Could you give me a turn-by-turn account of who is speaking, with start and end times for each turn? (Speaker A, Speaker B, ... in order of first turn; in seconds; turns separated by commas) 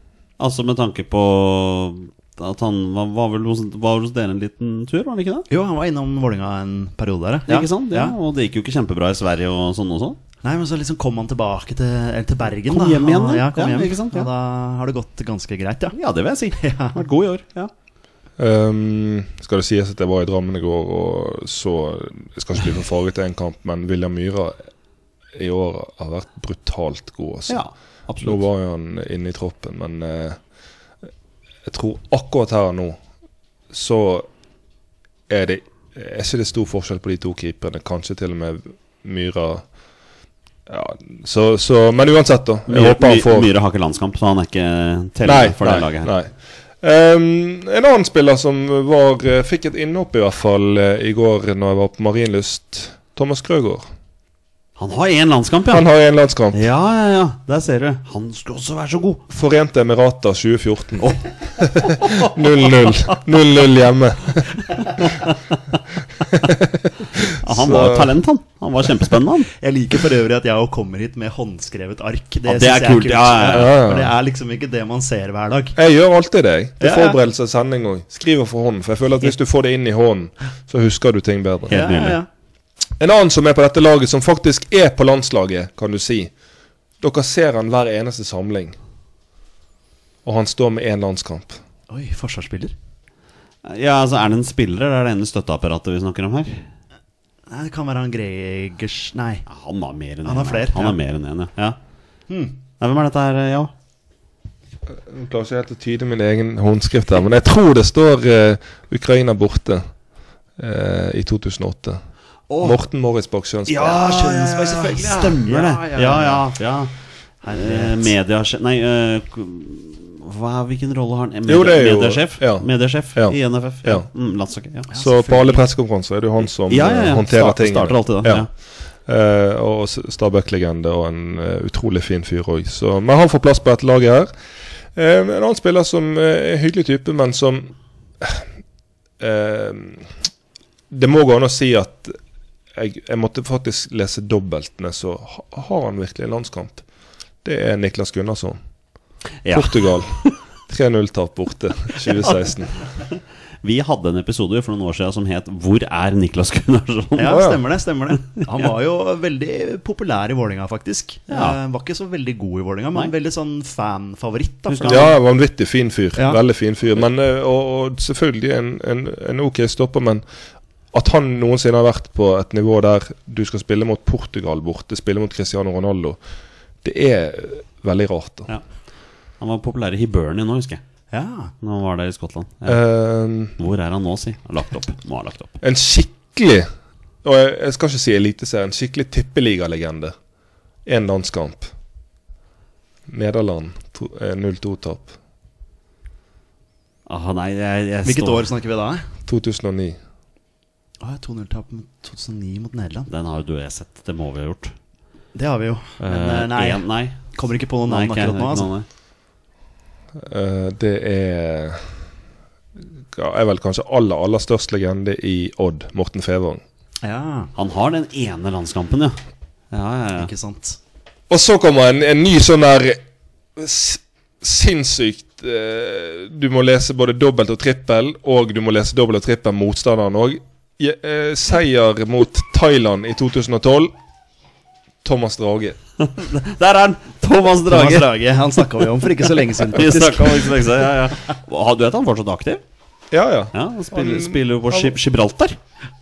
Speaker A: 0.4-5.5, Speaker B: 5.5-8.1, Speaker A: 7.5-10.2, Speaker B: 10.4-15.9, Speaker A: 12.7-14.3, Speaker A: 15.9-17.7, Speaker B: 16.6-17.0, Speaker C: 18.4-24.6, Speaker C: 25.3-27.6, Speaker A: 27.5-28.4, Speaker C: 28.2-30.4, Speaker C: 31.6-33.0, Speaker C: 33.7-34.3, Speaker C: 35.3-39.6, Speaker C: 40.7-43.5, Speaker A: 42.7-46.1, Speaker C: 45.2-53.9, Speaker A: 54.8-55.9, Speaker C: 55.7-56.6, Speaker A: 56.5-59.2, Speaker C: 59.3-64.8, Speaker A: 61.9-62.2, Speaker A: 65.0-65.3, Speaker C: 66.2-68.1, Speaker A: 67.3-69.5, Speaker B: 69.6-75.7, Speaker A: 72.5-73.7, Speaker C: 73.5-74.1, Speaker C: 75.8-81.7, Speaker B: 76.8-77.2, Speaker A: 81.7-82.2, Speaker B: 81.7-82.3, Speaker C: 83.0-86.3, Speaker C: 87.0-88.8, Speaker C: 90.2-91.6, Speaker B: 91.9-92.7, Speaker A: 93.6-96.7, Speaker B: 97.5-99.4, Speaker A: 99.5-101.8, Speaker B: 100.2-101.0, Speaker B: 102.3-102.5, Speaker A: 102.8-103.7, Speaker C: 104.9-109.8, Speaker C: 110.6-112.0, Speaker A: 112.5-112.8, Speaker C: 112.6-114.0, Speaker A: 113.7-116.9, Speaker B: 114.0-116.5, Speaker B: 117.4-118.1, Speaker A: 117.5-124.9, Speaker C: 121.5-124.1, Speaker B: 124.9-125.7, Speaker C: 124.9-134.3, Speaker A: 126.7-128.5, Speaker C: 134.9-138.5, Speaker C: 139.2-140.1, Speaker C: 140.9-142.1, Speaker C: 142.7-146.8, Speaker C: 147.4-148.6, Speaker A: 149.4-150.3, Speaker C: 149.5-152.8, Speaker A: 153.6-157.5, Speaker B: 157.2-165.2, Speaker C: 157.3-157.6, Speaker A: 161.3-161.6, Speaker A: 164.7-165.1, Speaker C: 164.8-170.2, Speaker C: 170.9-176.2, Speaker C: 176.8-178.5, Speaker A: 179.4-180.8, Speaker B: 181.1-181.5, Speaker A: 181.6-182.8, Speaker C: 182.7-183.6, Speaker A: 183.6-185.6, Speaker C: 185.6-186.7, Speaker C: 187.2-190.1, Speaker C: 190.8-191.7, Speaker C: 193.1-195.1, Speaker A: 197.1-198.5, Speaker B: 198.0-199.0, Speaker C: 199.2-200.0, Speaker B: 201.0-203.1, Speaker A: 203.1-204.7, Speaker B: 205.3-208.7, Speaker A: 206.0-208.8, Speaker C: 210.2-211.9, Speaker C: 213.1-216.6, Speaker B: 217.0-217.5, Speaker A: 217.5-219.2, Speaker A: 219.7-220.3, Speaker B: 220.2-220.8, Speaker C: 221.3-223.0, Speaker C: 223.6-233.9, Speaker C: 235.0-235.8, Speaker A: 236.0-238.1, Speaker B: 237.7-240.6, Speaker A: 239.7-242.6, Speaker C: 243.1-244.9, Speaker A: 243.5-245.6